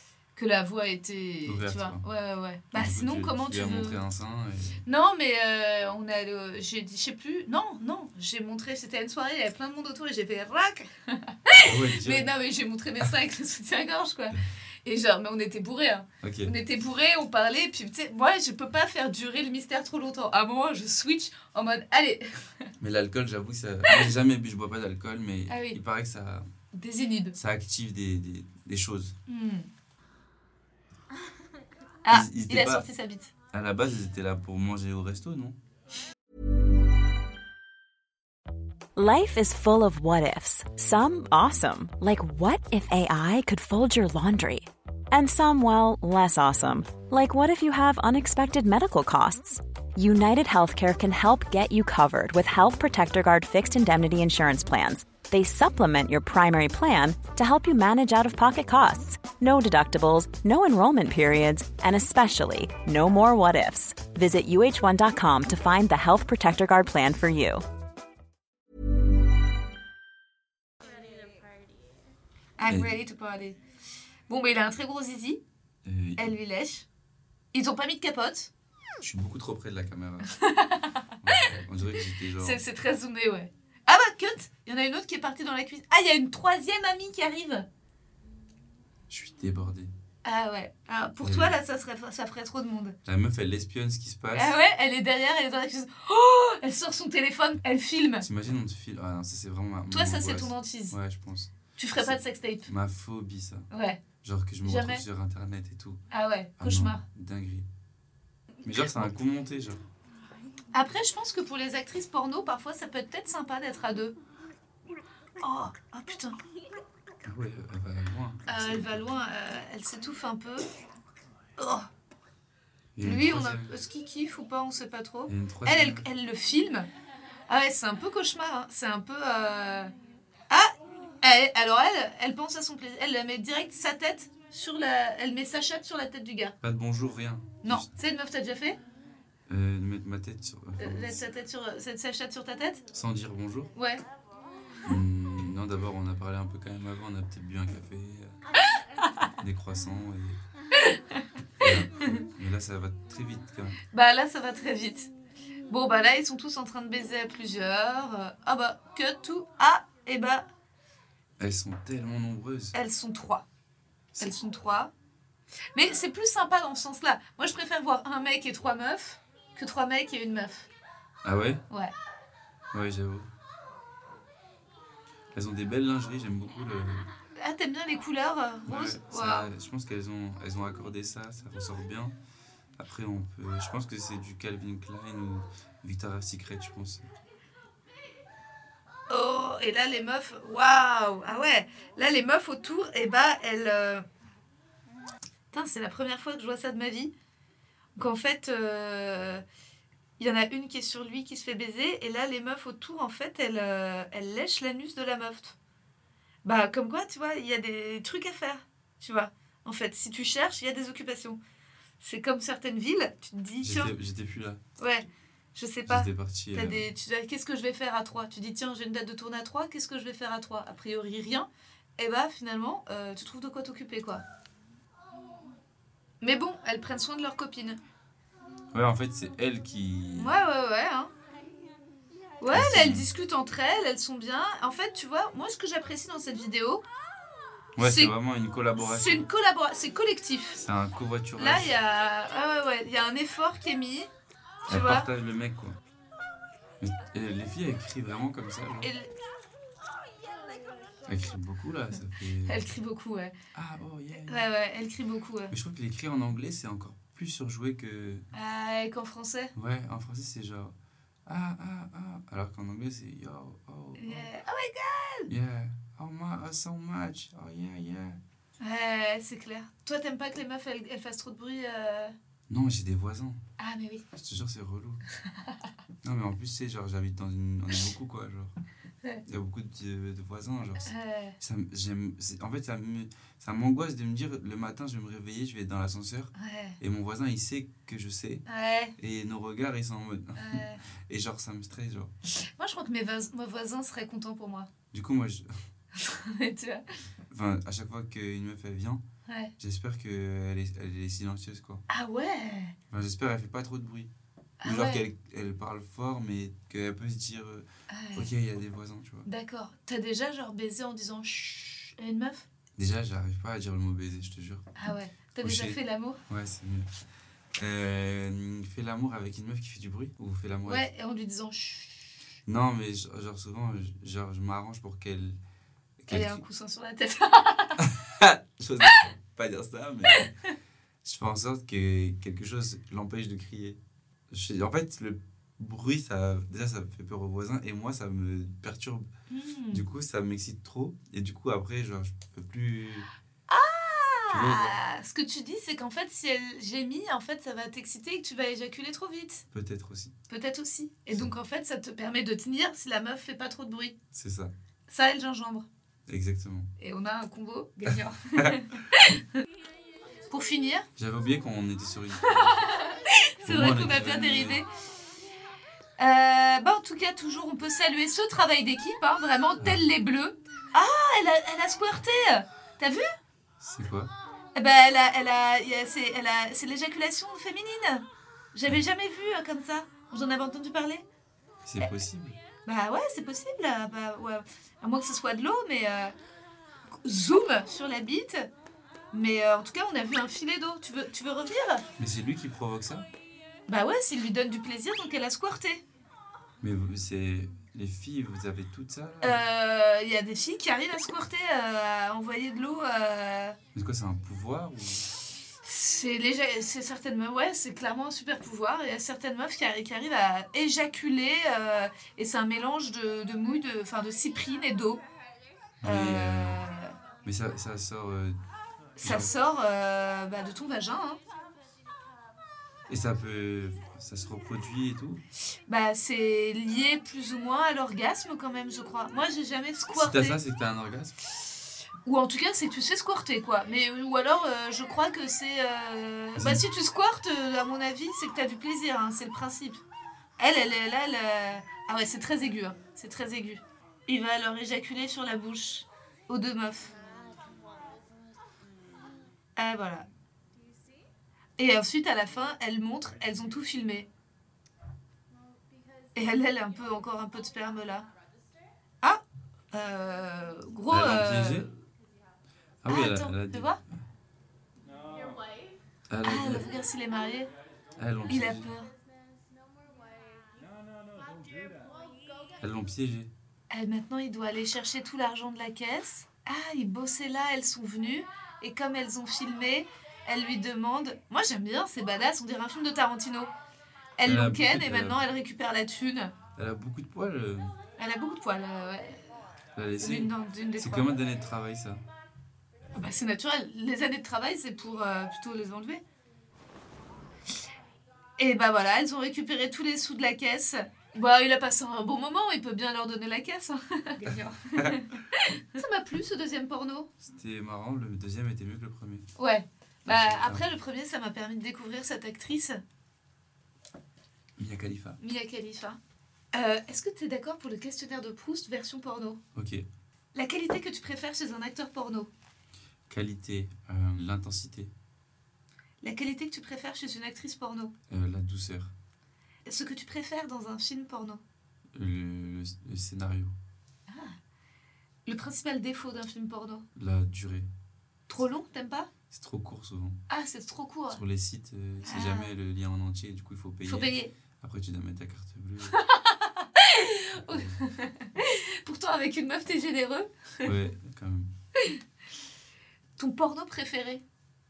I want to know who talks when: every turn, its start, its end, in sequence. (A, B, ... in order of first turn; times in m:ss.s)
0:00.4-0:04.0 A
0:01.5-0:02.0 B
0:02.7-0:04.8 B
0:04.9-0:22.7 A
0:11.6-0:12.3 B
0:16.2-0:16.5 B
0:22.8-0:26.5 B
0:25.5-0:25.8 A
0:26.7-0:27.4 A
0:27.4-0:29.2 B
0:29.3-0:29.7 A
0:32.0-0:33.3 A
0:32.1-0:32.9 B
0:33.5-0:35.6 B
0:39.0-1:07.6 C
1:12.6-1:13.6 A
1:12.7-1:12.9 B
1:14.3-1:15.4 A
1:15.8-1:16.3 B
1:16.2-1:16.9 A
1:17.5-1:18.5 A
1:19.0-1:20.3 B
1:20.3-1:21.6 A
1:21.2-1:22.6 B
1:22.4-1:27.7 A
1:29.1-1:29.9 B
1:30.2-1:33.0 A
1:31.2-1:31.6 B
1:33.0-1:34.6 B
1:34.3-1:38.3 A
1:38.2-1:43.7 B
1:39.9-1:41.0 A
1:41.8-1:42.7 A
1:43.7-1:44.0 A
1:44.2-1:46.0 B
1:44.6-1:45.0 A
1:46.1-1:47.0 A
1:46.6-1:47.7 B
1:48.6-1:49.8 B
1:50.7-1:54.2 A
1:55.4-1:56.4 A
1:57.2-1:59.1 B
1:58.5-2:00.7 A
2:01.6-2:01.9 A
2:03.0-2:03.7 B
2:03.0-2:06.9 A
2:05.3-2:06.1 B
2:07.5-2:09.9 A
2:10.5-2:16.6 A
2:16.6-2:17.9 B
2:17.6-2:18.8 A
2:19.5-2:21.2 B
2:20.8-2:22.8 A
2:22.9-2:23.7 B
2:23.8-2:24.0 A
2:24.8-2:28.4 B
2:29.4-2:30.4 B
2:31.6-2:33.8 B
2:32.0-2:32.2 A
2:33.9-2:35.1 A
2:35.7-2:40.5 A
2:41.4-2:42.8 B
2:42.7-2:43.4 A
2:44.2-2:44.9 A
2:45.8-2:50.7 A
2:51.2-2:51.6 B
2:52.7-2:53.3 B
2:55.3-2:57.1 B
2:57.4-2:59.5 A
2:58.7-3:02.2 B
3:02.8-3:07.1 B
3:09.1-3:14.0 A
3:15.5-3:17.1 A
3:18.0-3:19.4 A
3:20.2-3:25.6 A
3:26.4-3:31.4 A
3:32.0-3:33.9 A
3:33.6-3:34.6 B
3:34.8-3:44.2 A
3:35.9-3:36.9 B
3:46.2-3:47.8 A
3:48.7-3:50.4 B
3:50.2-3:51.1 A
3:52.4-3:56.8 A
3:52.5-3:53.1 B
3:57.8-3:59.3 B
3:57.8-3:58.1 A
3:58.8-4:00.6 A
4:00.6-4:01.7 B
4:01.4-4:04.1 A
4:04.6-4:05.1 A
4:04.7-4:05.8 B
4:06.8-4:08.9 B
4:08.8-4:09.1 A
4:11.1-4:12.7 B
4:12.5-4:13.3 A
4:13.5-4:14.5 B
4:14.3-4:15.5 A
4:15.5-4:18.3 B
4:18.3-4:19.5 A
4:19.6-4:20.8 B
4:21.3-4:24.3 B
4:24.0-4:25.3 A
4:25.3-4:28.2 B
4:28.6-4:32.1 A
4:32.5-4:33.4 B
4:33.6-4:34.0 A
4:34.1-4:35.0 B
4:36.0-4:38.6 B
4:39.3-4:48.4 B
4:40.8-4:41.4 A
4:46.4-4:46.8 A
4:48.5-4:49.0 A
4:49.0-4:52.1 B
4:50.4-4:50.8 A
4:52.5-4:54.7 A
4:54.9-4:55.5 B
4:56.0-4:56.8 A
4:57.3-4:59.0 B
4:59.3-4:59.5 A
4:59.6-5:01.8 B
5:01.9-5:02.8 A
5:02.9-5:04.1 B
5:04.6-5:05.1 A
5:04.6-5:09.3 B
5:07.9-5:08.3 A
5:09.3-5:12.5 A
5:12.8-5:14.7 B
5:14.8-5:16.2 A
5:15.4-5:15.8 B
5:16.3-5:16.9 B
5:17.6-5:20.9 B
5:20.7-5:22.2 A
5:22.5-5:25.4 B
5:26.0-5:26.4 B
5:26.1-5:27.9 A
5:27.8-5:30.3 B
5:30.1-5:30.5 A
5:31.0-5:33.8 B
5:34.3-5:39.1 B
5:39.3-5:39.8 A
5:39.7-5:43.1 B
5:43.5-5:49.4 A
5:44.3-5:44.8 B
5:49.5-5:50.1 B
5:50.3-5:54.0 A
5:54.1-5:54.5 B
5:54.9-5:55.7 A
5:56.1-5:56.7 B
5:56.8-5:59.4 A
5:57.9-5:58.6 B
6:00.3-6:00.9 A
6:01.0-6:02.8 B
6:02.4-6:04.7 A
6:03.4-6:04.6 B
6:06.0-6:13.1 A
6:13.6-6:14.1 B
6:14.6-6:21.1 A
6:21.6-6:22.4 B
6:22.6-6:26.2 A
6:26.9-6:28.5 A
6:29.1-6:31.9 A
6:32.0-6:33.1 B
6:33.7-6:35.8 A
6:36.6-6:39.4 B
6:39.2-6:43.6 A
6:43.8-6:45.1 B
6:45.6-6:55.0 A
6:55.8-6:56.6 B
6:55.8-6:56.9 A
6:57.2-6:58.4 B
6:59.0-7:01.2 A
6:59.0-6:59.3 B
7:02.9-7:05.2 B
7:05.7-7:10.4 A
7:09.9-7:11.2 B
7:12.0-7:19.8 A
7:16.4-7:16.6 B
7:20.4-7:26.9 A
7:29.6-7:30.1 A
7:31.6-7:34.1 A
7:36.2-7:38.1 A
7:39.7-7:41.7 A
7:40.9-7:41.7 B
7:42.8-7:44.0 B
7:42.9-7:43.8 A
7:46.1-7:46.7 B
7:46.2-7:47.5 A
7:48.0-7:48.7 B
7:48.3-7:48.9 A
7:52.6-7:53.3 B
7:53.7-8:03.5 A
8:04.2-8:06.3 A
8:04.2-8:05.2 B
8:06.6-8:07.7 B
8:08.0-8:09.3 A
8:09.8-8:12.0 B
8:10.0-8:11.1 A
8:13.0-8:16.0 A
8:18.4-8:27.1 A
8:24.2-8:25.0 B
8:27.2-8:29.3 B
8:29.4-8:32.8 A
8:30.1-8:30.7 B
8:34.6-8:35.2 B
8:35.2-8:36.0 A
8:36.5-8:39.4 A
8:39.6-8:39.8 B
8:40.3-8:42.3 A
8:43.1-8:44.9 B
8:46.0-8:47.9 A
8:48.1-8:48.9 B
8:49.7-8:51.4 A
8:51.9-8:53.5 B
8:54.1-8:54.4 A
8:55.3-8:56.8 A
8:57.0-8:57.7 B
8:58.3-8:59.1 A
8:59.3-9:00.2 B
9:00.3-9:01.2 A
9:01.1-9:06.0 B
9:02.0-9:02.5 A
9:03.9-9:04.3 A
9:05.9-9:10.7 A
9:07.4-9:07.8 B
9:10.6-9:11.5 B
9:13.2-9:14.2 A